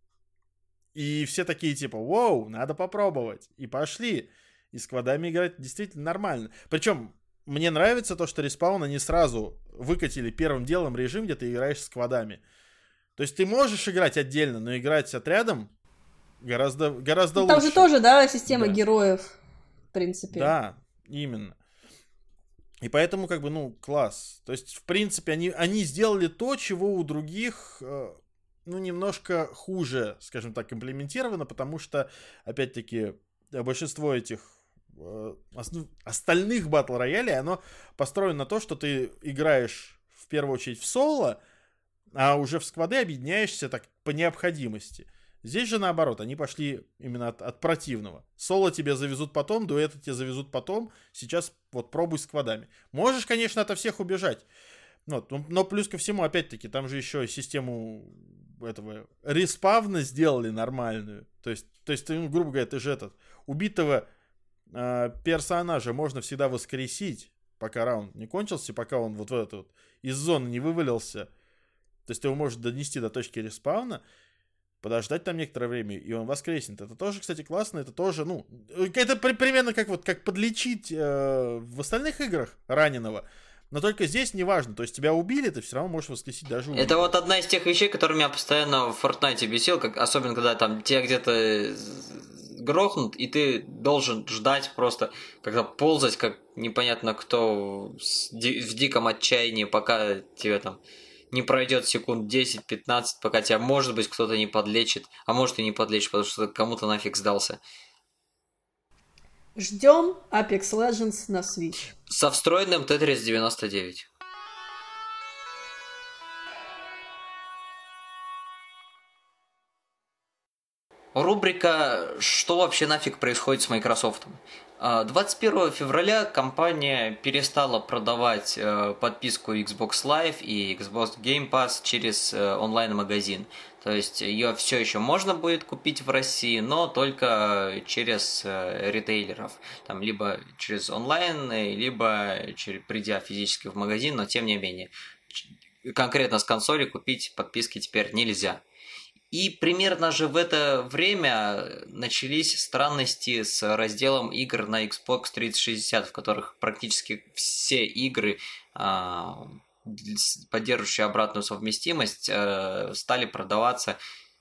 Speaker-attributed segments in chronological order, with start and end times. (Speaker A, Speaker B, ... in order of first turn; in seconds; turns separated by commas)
Speaker A: 0.9-12.4, Speaker A: 13.2-15.7, Speaker A: 16.4-17.9, Speaker B: 17.4-19.3, Speaker A: 18.5-18.8, Speaker B: 19.9-20.5, Speaker A: 20.3-21.6, Speaker A: 22.8-41.4, Speaker A: 42.1-54.5, Speaker A: 55.1-64.0, Speaker A: 64.7-71.3, Speaker A: 72.1-74.0, Speaker A: 74.8-87.1, Speaker C: 86.7-100.8, Speaker C: 101.3-107.6, Speaker B: 109.6-111.8, Speaker C: 112.1-114.1, Speaker C: 121.2-148.6, Speaker C: 149.3-164.0